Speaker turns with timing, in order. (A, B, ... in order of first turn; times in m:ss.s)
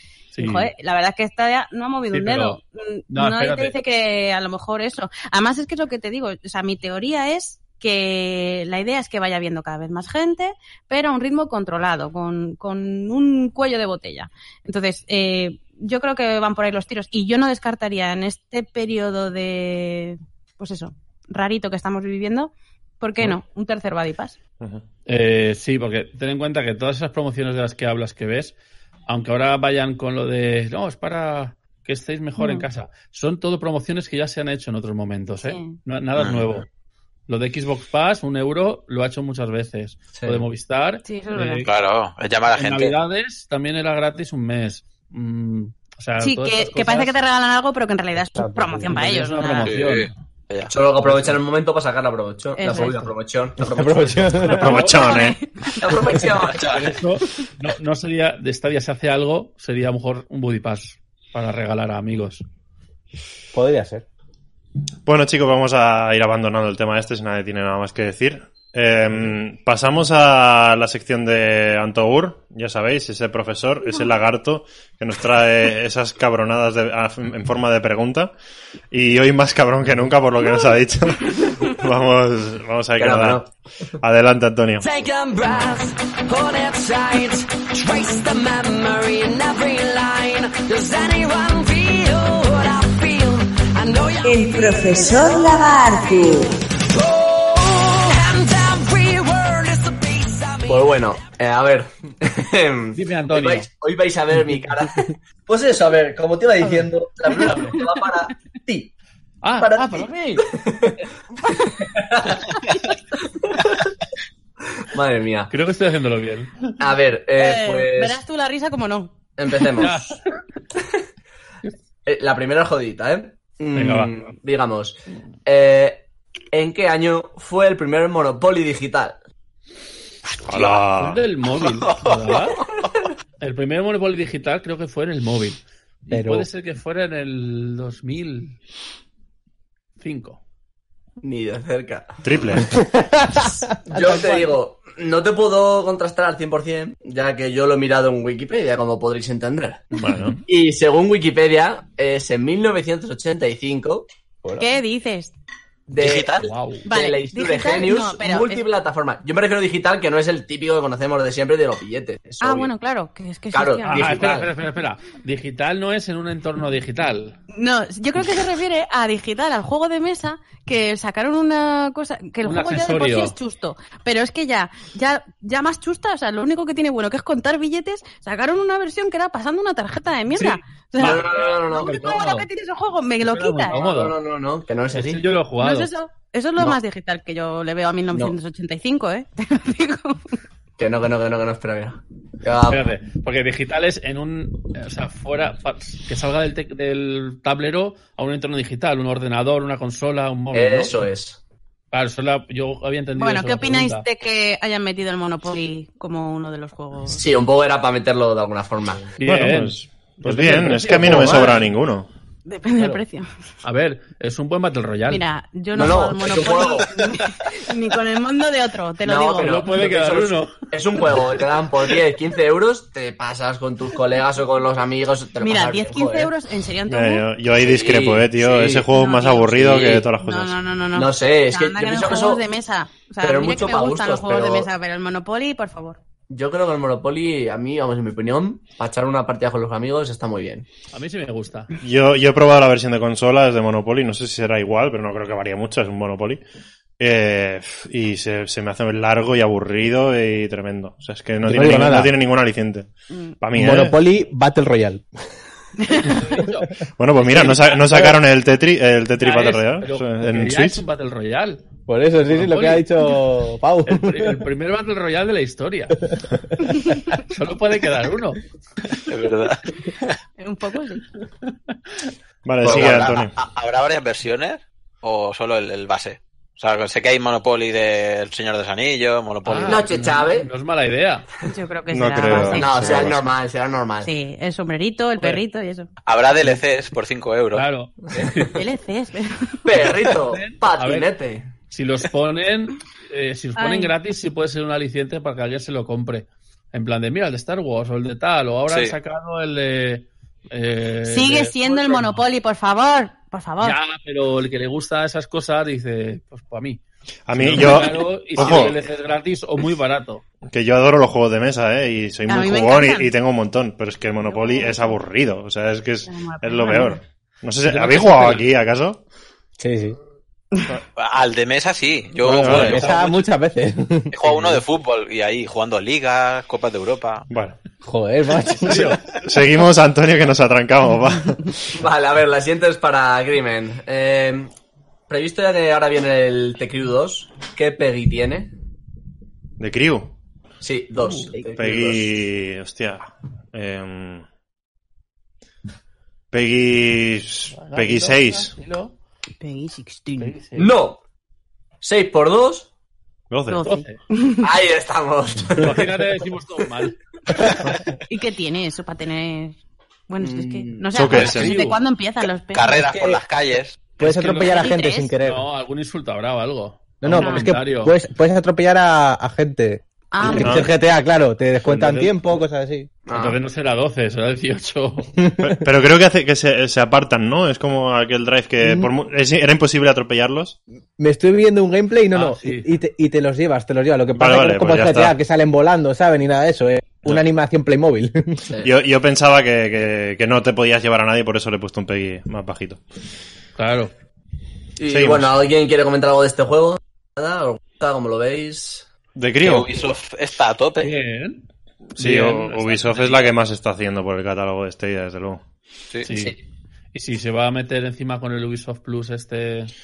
0:00.3-0:00.7 A
0:00.4-0:24.4 B
0:02.1-0:02.6 A
0:03.1-0:03.7 A
0:25.1-0:28.6 A
0:29.1-0:36.6 A
0:32.4-0:32.6 B
0:35.4-0:35.8 B
0:36.2-0:36.5 C
0:37.3-0:41.7 A
0:40.1-0:40.4 D
0:41.0-0:41.6 B
0:41.6-0:43.0 C
0:42.5-0:47.2 A
0:46.2-0:49.7 B
0:48.3-0:48.9 E
0:48.9-0:50.2 A
0:49.6-0:50.7 C
0:50.7-0:54.5 D
0:51.0-0:51.4 A
0:52.6-0:53.1 B
0:53.6-0:54.9 E
0:54.4-0:55.9 B
0:54.6-0:55.4 F
0:55.8-0:56.7 D
0:56.4-0:56.9 C
0:56.6-1:02.4 A
1:03.5-1:04.0 E
1:05.1-1:18.3 F
1:18.9-1:23.5 F
1:23.0-1:23.5 D
1:24.0-1:24.9 F
1:24.8-1:41.0 G
1:40.7-1:48.9 D
1:42.9-1:43.7 A
1:49.4-1:50.5 A
1:49.6-1:51.0 D
1:51.8-1:52.5 D
1:53.3-1:53.6 D
1:54.8-1:55.5 D
1:55.5-1:56.7 A
1:56.8-1:58.2 D
1:57.4-1:59.1 B
1:59.4-2:00.0 D
1:59.8-2:00.2 A
2:02.1-2:09.2 D
2:03.7-2:04.1 A
2:10.4-2:11.2 F
2:10.5-2:10.8 C
2:10.9-2:12.6 A
2:11.6-2:12.5 C
2:13.4-2:18.6 A
2:16.1-2:16.5 E
2:20.0-2:20.4 A
2:21.2-2:22.6 D
2:22.2-2:22.7 F
2:22.7-2:24.6 E
2:23.9-2:29.9 D
2:29.9-2:30.4 A
2:30.0-2:30.4 F
2:30.4-2:34.1 D
2:34.4-2:34.7 E
2:34.6-2:35.3 B
2:35.9-2:42.7 D
2:36.0-2:36.5 C
2:36.4-2:36.9 A
2:36.9-2:38.6 B
2:42.4-2:44.3 B
2:43.5-2:44.5 D
2:43.8-2:47.4 A
2:47.5-3:03.8 B
2:52.4-2:53.4 A
3:00.3-3:02.5 A
3:01.0-3:02.3 D
3:03.2-3:04.2 A
3:03.7-3:05.2 D
3:04.9-3:05.9 A
3:05.6-3:10.2 B
3:10.8-3:12.8 D
3:12.7-3:20.9 A
3:20.5-3:21.4 D
3:21.9-3:24.1 A
3:23.2-3:27.2 B
3:27.1-3:29.1 D
3:29.2-3:31.7 A
3:29.2-3:32.1 F
3:32.4-3:33.3 B
3:33.6-3:35.2 A
3:35.1-3:39.6 B
3:35.7-3:37.0 D
3:39.0-3:46.3 D
3:39.4-3:40.5 A
3:45.4-3:47.3 B
3:46.9-3:50.6 F
3:47.6-3:48.9 D
3:48.9-3:56.0 B
3:49.6-3:50.1 D
3:50.9-3:52.4 D
3:53.2-3:54.7 D
3:56.3-4:00.7 D
4:00.9-4:01.7 A
4:01.8-4:06.4 F
4:07.0-4:12.9 F
4:11.4-4:12.1 E
4:13.4-4:14.0 F
4:13.5-4:15.1 E
4:15.8-4:16.2 B
4:16.0-4:17.8 A
4:17.0-4:20.8 F
4:19.2-4:21.6 A
4:21.9-4:24.4 E
4:22.3-4:22.9 A
4:23.9-4:26.0 A
4:27.1-4:28.4 A
4:29.1-4:30.2 C
4:30.4-4:31.1 B
4:31.5-4:32.0 A
4:32.4-4:33.3 F
4:32.6-4:33.2 D
4:32.6-4:39.9 C
4:39.4-4:41.3 A
4:39.6-4:40.5 D
4:41.4-4:43.1 B
4:41.9-4:43.2 F
4:42.5-4:44.1 D
4:44.0-4:45.9 B
4:46.1-4:47.7 C
4:47.5-4:48.6 A
4:48.1-4:48.6 D
4:48.5-4:49.7 B
4:49.6-4:51.5 D
4:50.0-4:51.1 A
4:51.7-5:02.2 A
4:53.6-4:53.9 B
4:58.7-4:58.9 C
5:01.1-5:03.8 B
5:03.6-5:06.8 A
5:07.3-5:08.8 F
5:07.3-5:10.2 A
5:10.5-5:19.0 F
5:12.3-5:13.1 B
5:14.2-5:15.0 B
5:16.1-5:17.0 B
5:17.6-5:18.5 A
5:19.6-5:20.0 E
5:21.0-5:23.0 C
5:22.2-5:22.9 F
5:22.4-5:24.1 E
5:22.5-5:23.2 A
5:24.1-5:27.3 C
5:27.3-5:27.6 F
5:27.8-5:29.0 E
5:28.6-5:29.0 A
5:28.7-5:31.8 F
5:31.7-5:34.5 D
5:35.1-5:38.5 D
5:39.6-5:40.1 F
5:40.6-5:42.0 D
5:41.0-5:41.4 A
5:41.6-5:44.2 F
5:46.3-5:48.5 F
5:47.5-5:48.9 A
5:49.4-5:50.3 B
5:50.2-5:50.7 A
5:50.6-5:51.0 D
5:51.8-5:52.7 D
5:53.3-5:53.6 F
5:53.5-5:54.5 B
5:53.6-5:54.0 A
5:54.4-5:56.0 D
5:55.5-5:57.0 A
5:58.1-5:59.6 B
6:00.1-6:02.8 B
6:00.2-6:00.9 D
6:00.9-6:01.6 F
6:01.1-6:01.8 A
6:02.5-6:03.8 C
6:02.7-6:03.2 E
6:04.0-6:05.4 E
6:04.0-6:04.7 A
6:04.4-6:05.1 B
6:05.2-6:07.9 A
6:07.0-6:12.9 E
6:07.2-6:07.5 B
6:10.1-6:10.6 B
6:10.4-6:10.7 F
6:11.6-6:12.2 A
6:13.1-6:13.4 D
6:13.1-6:15.1 A
6:15.2-6:15.6 E
6:15.4-6:20.6 F
6:18.6-6:18.9 E
6:21.0-6:28.4 E
6:22.1-6:22.7 A
6:24.1-6:25.1 F
6:28.6-6:32.8 F
6:33.6-6:33.9 A
6:34.8-6:38.9 D
6:34.9-6:35.4 F
6:39.2-6:39.7 F
6:39.4-6:40.9 C
6:40.8-6:41.4 A
6:42.0-6:45.4 F
6:42.0-6:43.3 A
6:46.0-6:46.4 A
6:46.9-6:49.7 A